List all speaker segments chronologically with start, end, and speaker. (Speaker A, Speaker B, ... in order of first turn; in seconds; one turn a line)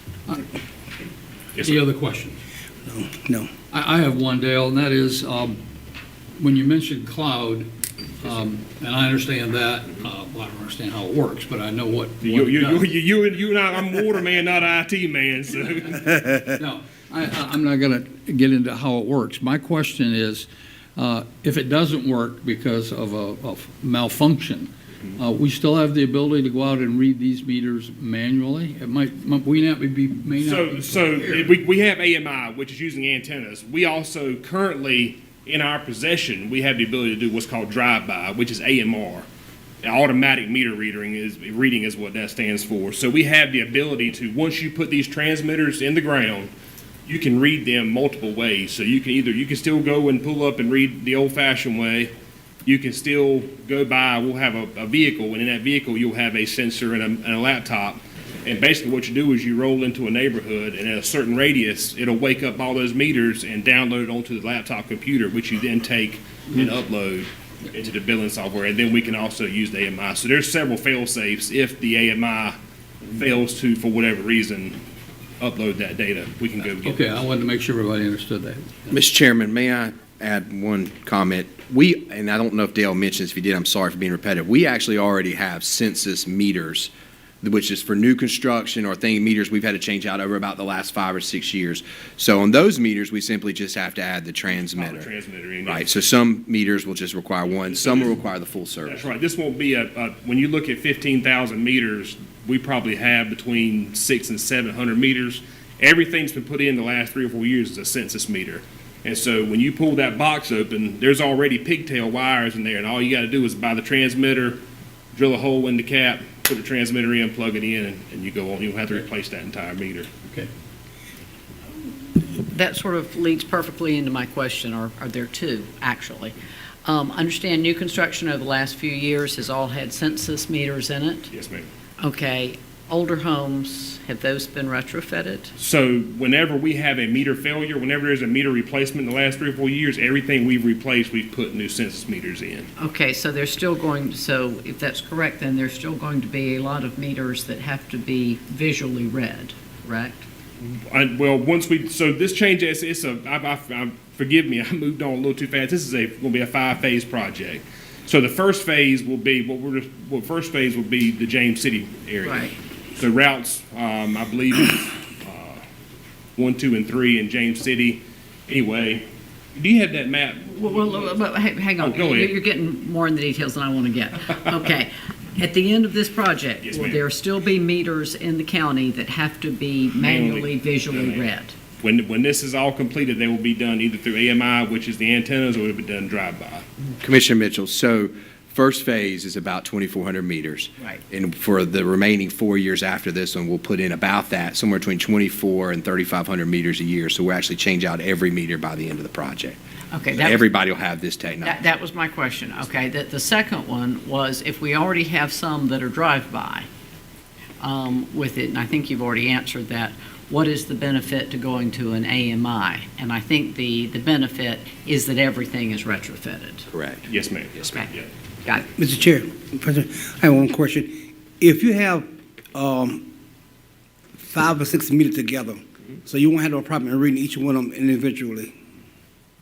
Speaker A: 1.6-2.4
Speaker B: 2.9-3.5
Speaker A: 3.7-5.6
Speaker A: 6.4-7.7
Speaker A: 8.2-12.9
Speaker C: 12.2-16.1
Speaker A: 16.0-31.5
Speaker C: 30.4-39.2
Speaker C: 39.8-46.5
Speaker C: 47.0-52.1
Speaker C: 52.6-74.8
Speaker C: 75.4-77.0
Speaker A: 76.8-78.9
Speaker D: 78.9-95.1
Speaker C: 94.8-95.9
Speaker D: 95.6-99.1
Speaker C: 97.6-98.1
Speaker C: 98.8-114.6
Speaker C: 115.1-120.1
Speaker E: 122.3-126.3
Speaker E: 126.8-131.3
Speaker C: 131.3-131.7
Speaker E: 132.0-135.5
Speaker C: 135.6-142.7
Speaker E: 142.8-150.2
Speaker C: 150.7-165.6
Speaker E: 162.2-162.5
Speaker C: 166.3-171.2
Speaker E: 170.5-181.5
Speaker C: 171.8-172.4
Speaker C: 176.6-177.1
Speaker C: 180.0-181.3
Speaker C: 181.8-186.6
Speaker D: 187.0-199.6
Speaker E: 199.9-200.4
Speaker D: 200.2-201.6
Speaker E: 201.4-206.7
Speaker E: 207.6-216.7
Speaker D: 216.7-217.1
Speaker C: 217.1-218.1
Speaker B: 218.8-223.1
Speaker B: 224.2-228.5